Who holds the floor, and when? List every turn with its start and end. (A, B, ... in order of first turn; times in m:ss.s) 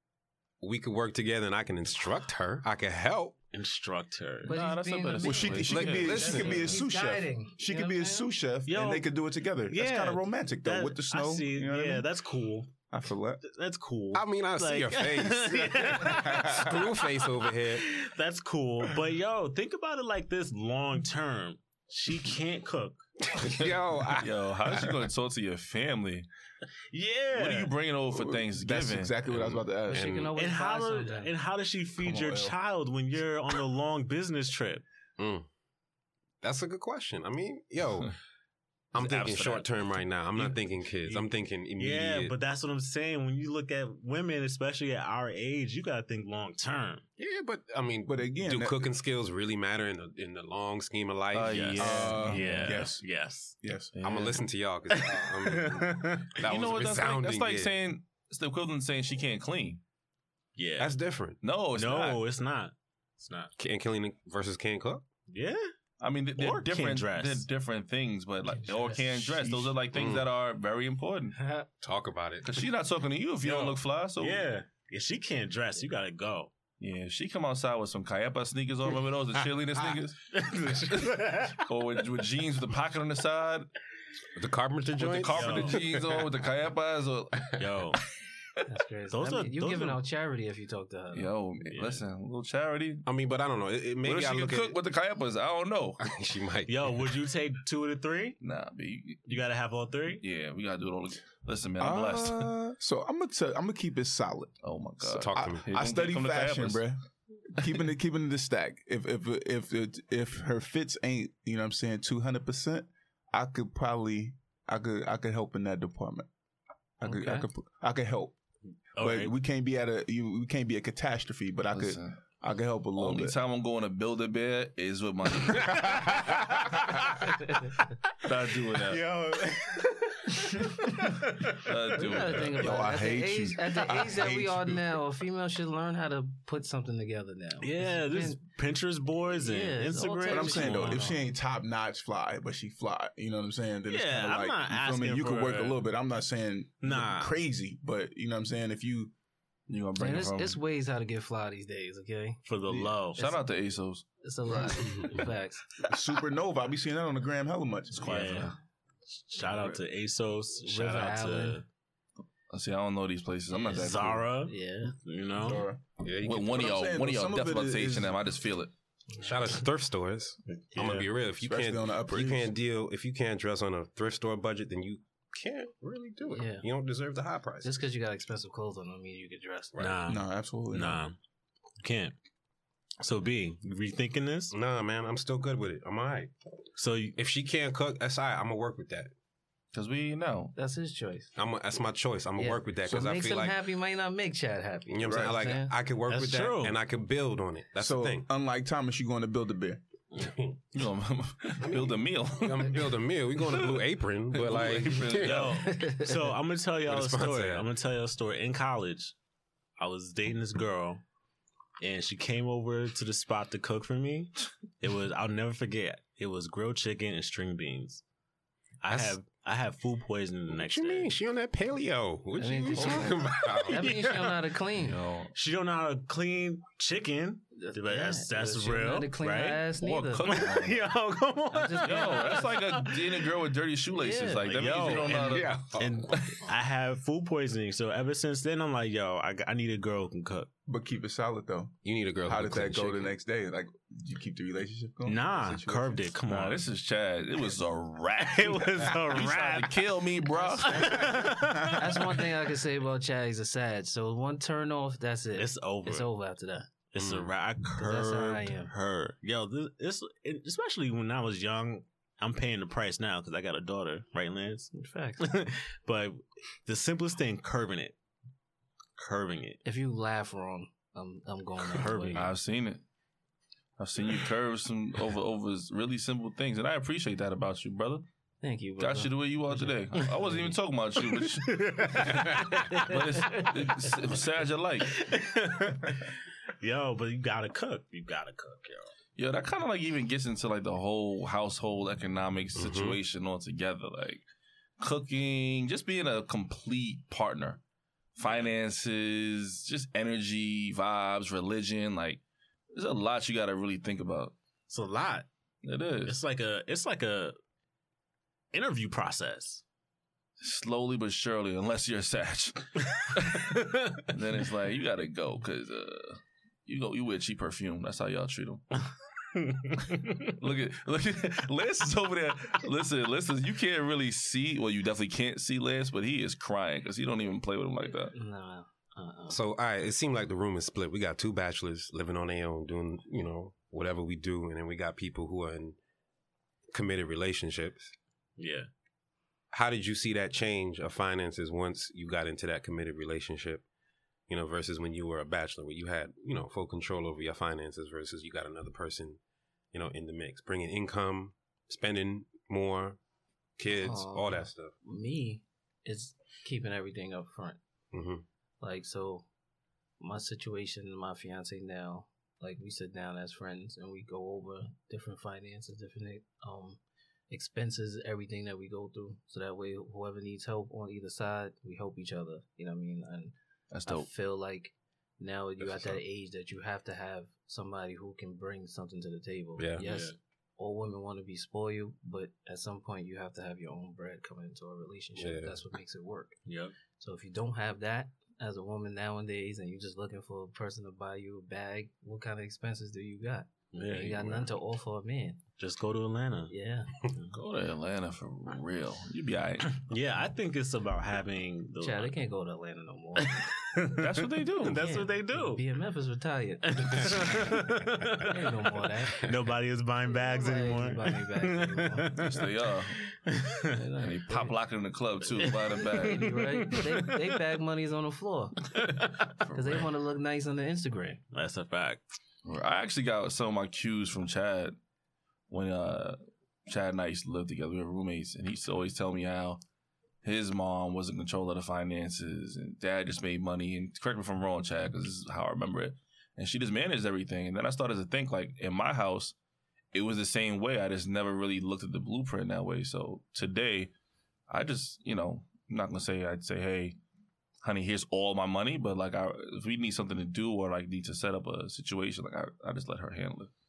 0:00.6-0:03.4 A
0:03.5-0:04.6 B
0:04.4-0:06.4 C
0:04.4-0:08.3 D
0:05.2-0:12.0 E
0:05.7-0:06.8 A
0:08.6-0:09.1 B
0:09.7-0:12.7 B
0:12.9-0:13.4 E
0:13.4-0:23.0 B
0:14.1-0:17.9 A
0:16.2-0:16.8 E
0:23.2-0:25.0 A
0:23.6-0:26.3 C
0:26.9-0:27.7 B
0:27.3-0:29.6 C
0:28.1-0:30.2 E
0:29.9-0:31.3 D
0:29.9-0:30.3 A
0:30.3-0:34.8 B
0:32.0-0:32.6 E
0:35.2-0:35.5 A
0:36.4-0:38.2 A
0:38.9-0:42.3 A
0:39.0-0:39.7 B
0:40.4-0:47.0 B
0:47.2-0:52.2 A
0:48.0-0:48.9 E
0:51.3-0:52.8 C
0:51.5-0:53.6 B
0:51.8-0:53.0 E
0:53.6-0:53.9 E
0:53.9-0:54.4 C
0:54.0-0:57.7 A
0:54.9-0:56.3 B
0:56.4-0:59.8 C
1:00.6-1:01.0 B
1:00.8-1:01.4 A
1:01.4-1:02.2 C
1:01.7-1:03.5 B
1:03.6-1:05.0 A
1:05.3-1:05.6 B
1:06.0-1:11.4 C
1:06.4-1:07.5 B
1:08.5-1:09.1 D
1:09.3-1:09.7 E
1:09.9-1:10.3 A
1:11.3-1:11.7 D
1:11.8-1:12.6 A
1:12.4-1:14.5 C
1:13.4-1:16.5 B
1:16.8-1:20.2 C
1:19.8-1:21.6 B
1:20.9-1:23.7 C
1:24.4-1:26.3 A
1:25.0-1:27.5 C
1:25.3-1:25.9 B
1:27.6-1:28.0 B
1:28.6-1:31.3 D
1:29.1-1:30.0 B
1:31.1-1:33.0 C
1:31.6-1:32.0 B
1:33.0-1:34.8 A
1:34.0-1:36.0 C
1:36.0-1:36.7 A
1:36.7-1:38.4 B
1:38.4-1:39.4 C
1:39.2-1:40.2 B
1:40.2-1:42.5 C
1:41.8-1:47.0 E
1:44.6-1:46.9 C
1:45.1-1:45.7 A
1:47.5-1:56.3 E
1:57.0-1:58.4 E
1:57.0-1:57.5 D
1:58.9-1:59.3 B
1:59.0-2:03.4 E
2:01.7-2:02.2 C
2:03.0-2:06.2 C
2:06.0-2:06.3 E
2:08.2-2:09.0 C
2:08.3-2:11.6 B
2:11.5-2:13.0 C
2:12.0-2:18.4 D
2:12.6-2:14.8 E
2:17.6-2:21.1 B
2:19.3-2:21.2 D
2:20.3-2:29.1 E
2:23.9-2:25.8 B
2:26.8-2:27.4 B
2:29.7-2:30.6 C
2:30.0-2:32.4 D
2:32.4-2:33.3 B
2:33.1-2:34.0 C
2:34.2-2:35.7 D
2:34.5-2:34.8 E
2:35.9-2:38.1 E
2:37.9-2:38.6 C
2:38.0-2:38.5 B
2:39.1-2:41.6 B
2:39.4-2:39.8 C
2:40.6-2:41.6 D
2:42.5-2:44.2 C
2:43.6-2:45.6 B
2:44.4-2:44.9 D
2:45.4-2:45.8 E
2:46.0-2:46.8 A
2:46.2-2:48.7 C
2:46.4-2:48.2 E
2:49.2-2:57.7 A
2:50.7-2:51.1 B
2:51.4-2:52.5 E
2:56.3-2:56.6 D
2:57.6-2:59.8 D
2:59.7-3:00.1 A
2:59.8-3:01.2 B
3:00.1-3:01.0 E
3:01.8-3:02.1 B
3:03.0-3:04.5 B
3:04.5-3:06.3 A
3:06.8-3:07.2 B
3:07.2-3:09.1 A
3:09.7-3:10.5 C
3:10.5-3:11.3 D
3:11.4-3:13.6 A
3:12.4-3:15.7 D
3:12.9-3:13.1 E
3:14.9-3:18.3 A
3:15.0-3:15.4 E
3:16.1-3:16.8 B
3:17.8-3:19.8 E
3:20.1-3:20.6 A
3:20.7-3:25.7 C
3:21.6-3:25.6 A
3:25.2-3:29.1 B
3:25.6-3:26.2 D
3:26.8-3:27.7 A
3:29.8-3:31.0 B
3:31.8-3:38.0 B
3:38.8-3:41.1 B
3:38.9-3:39.2 A
3:40.5-3:43.9 A
3:42.4-3:45.1 D
3:42.7-3:43.1 C
3:43.4-3:44.4 B
3:44.8-3:45.3 C
3:45.3-3:49.6 B
3:47.6-3:50.5 D
3:49.7-3:50.9 C
3:50.2-3:53.3 B
3:51.5-3:52.5 D
3:51.8-3:56.4 C
3:53.9-3:54.7 D
3:54.4-4:00.5 B
3:55.1-3:56.4 A
4:00.7-4:01.7 E
4:01.8-4:03.1 A
4:02.2-4:06.1 E
4:05.0-4:06.6 B
4:06.2-4:11.2 C
4:08.2-4:09.8 B
4:10.3-4:16.7 D
4:10.6-4:12.3 B
4:15.4-4:16.1 B
4:16.9-4:28.0 B
4:17.0-4:17.3 A
4:17.8-4:18.7 D
4:24.7-4:25.3 D
4:29.0-4:29.6 B
4:29.6-4:32.2 D
4:31.6-4:32.3 B
4:32.1-4:32.8 C
4:33.8-4:38.0 C
4:38.4-4:40.5 D
4:38.8-4:45.0 C
4:41.0-4:42.6 B
4:42.1-4:43.8 D
4:44.9-4:48.9 B
4:49.2-4:54.2 C
4:52.6-4:53.0 A
4:54.8-4:57.6 C
4:58.2-5:02.2 C
4:58.2-4:58.5 B
5:02.7-5:04.3 C
5:04.7-5:05.3 B
5:05.6-5:06.2 C
5:06.0-5:07.4 B
5:08.5-5:09.6 B
5:10.4-5:13.6 C
5:13.3-5:14.0 B
5:14.1-5:18.6 C
5:19.3-5:20.3 B
5:20.2-5:28.1 C
5:27.9-5:29.4 D
5:29.3-5:35.8 A
5:36.7-5:37.9 A
5:38.4-5:38.7 B
5:39.5-5:43.6 A
5:44.3-5:49.2 A
5:49.7-5:53.0 A
5:53.6-5:54.7 A
5:53.7-5:57.6 D
5:57.9-5:58.2 A
5:58.6-5:59.3 D
6:00.0-6:13.3 D
6:13.7-6:14.1 C
6:13.8-6:26.4 D
6:15.6-6:16.0 C
6:19.6-6:19.8 A
6:19.8-6:20.1 B
6:25.2-6:25.6 A
6:26.4-6:26.7 B
6:27.0-6:35.4 D
6:33.7-6:34.5 B
6:35.6-6:36.5 B
6:36.5-6:37.0 D
6:37.3-6:39.8 C
6:39.7-6:42.1 B
6:41.8-6:43.5 D
6:43.2-6:45.6 B
6:43.9-6:44.8 C
6:44.6-6:47.6 D
6:46.7-6:48.4 B
6:48.2-6:49.3 D
6:49.2-6:53.7 B
6:50.1-6:52.2 D
6:52.2-6:53.0 C
6:53.7-6:54.6 D
6:54.0-6:56.4 C
6:55.4-6:57.2 B
6:55.9-6:58.8 D
6:58.8-6:59.1 B
6:59.4-6:59.9 C
6:59.5-7:01.2 D
7:01.3-7:02.0 B
7:02.4-7:04.7 C
7:05.5-7:09.6 C
7:10.2-7:19.3 C
7:19.9-7:23.9 C
7:24.5-7:27.0 C
7:27.6-7:33.5 C